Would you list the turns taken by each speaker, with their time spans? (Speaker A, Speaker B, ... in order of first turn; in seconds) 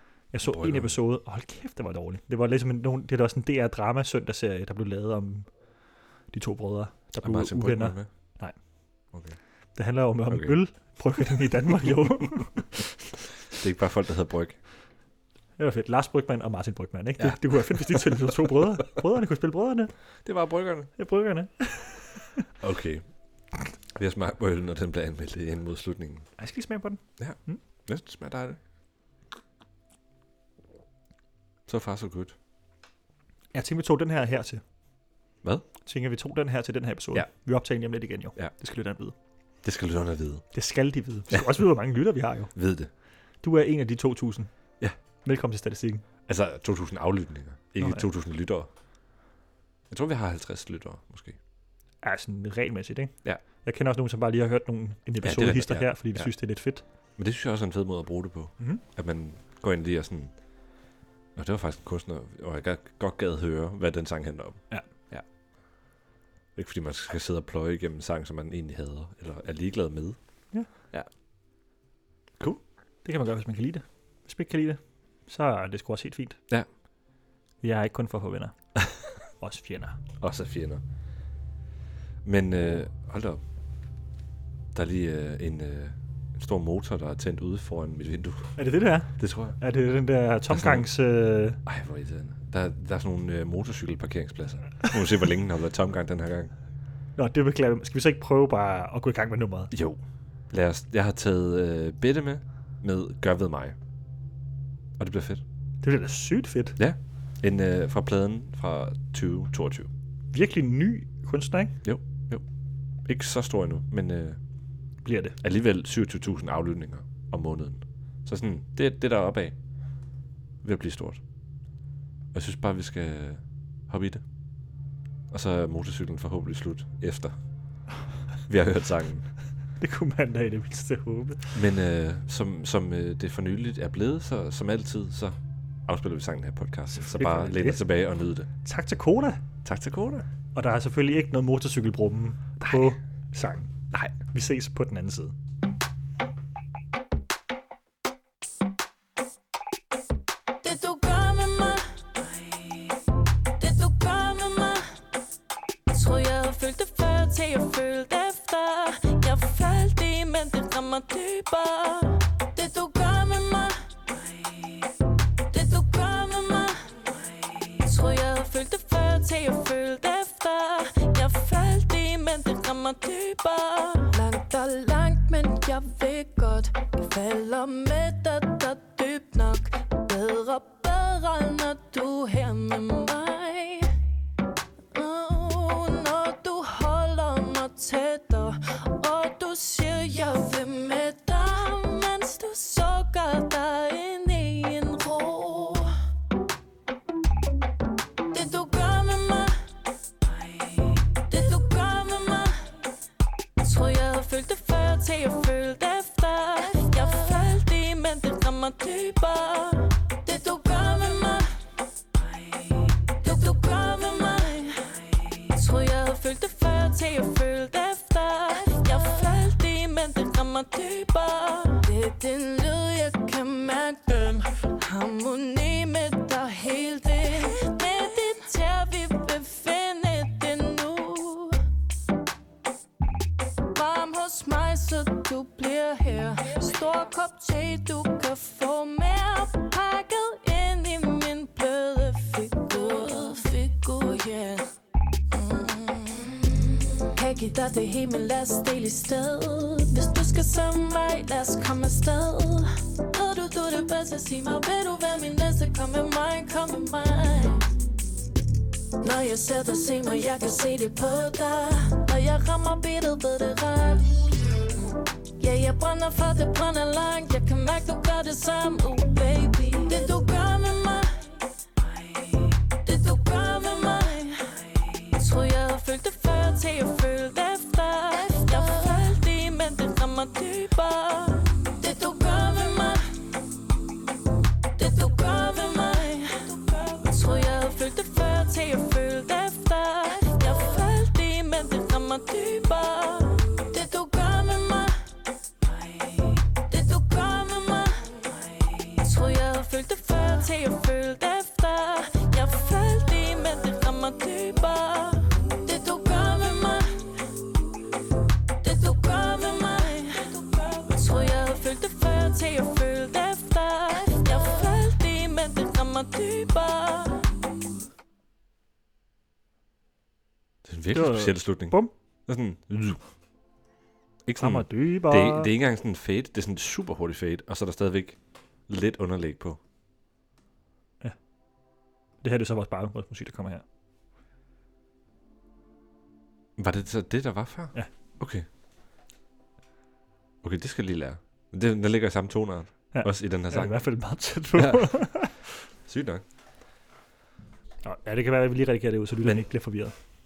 Speaker A: 0.3-5.5, 6.3-8.6, 9.8-12.9, 15.6-19.9, 21.0-22.5, 26.4-27.6, 33.5-34.6, 35.9-39.1, 40.5-42.5, 43.4-44.5, 45.2-46.0, 47.8-48.1, 52.0-56.8, 73.0-76.4, 77.6-78.6, 79.4-80.0, 88.6-91.6, 97.2-99.7, 105.8-106.8, 110.3-111.8, 115.0-115.4, 129.8-131.6, 136.9-137.8, 138.6-139.4, 140.5-143.7, 144.2-145.3, 320.9-321.9, 324.4-325.5, 332.2-333.6, 342.9-345.5, 347.8-349.9
Speaker B: 0.4-1.0, 7.2-8.1, 9.1-9.4, 10.3-10.6, 13.5-14.6, 17.2-18.4, 20.2-20.9, 22.6-23.0, 23.9-26.3, 27.2-28.6, 31.7-32.4, 39.6-40.5, 42.5-42.9, 46.3-48.7, 49.9-51.4, 55.2-56.3, 57.2-60.3, 61.4-65.2, 66.5-70.2, 80.2-80.8, 82.2-83.4, 84.7-88.6, 89.2-89.6, 90.5-90.9, 91.7-96.5, 99.7-103.8, 105.0-105.4, 106.8-109.9, 111.8-112.5, 113.1-114.4, 115.4-119.6, 120.6-121.2, 122.3-124.2, 125.3-127.4, 128.5-129.3, 131.5-138.5, 139.6-140.3, 320.6-323.0, 324.3-329.6, 336.6-338.5, 340.4-343.8, 344.6-344.9, 345.9-346.2
Speaker C: 150.6-152.9, 153.6-155.0, 155.9-164.9, 165.5-183.9, 184.9-196.0, 198.3-202.8, 203.6-231.6, 233.7-244.7, 245.3-257.7, 259.0-264.4, 265.4-283.3, 284.7-295.1, 295.8-307.3, 308.6-317.3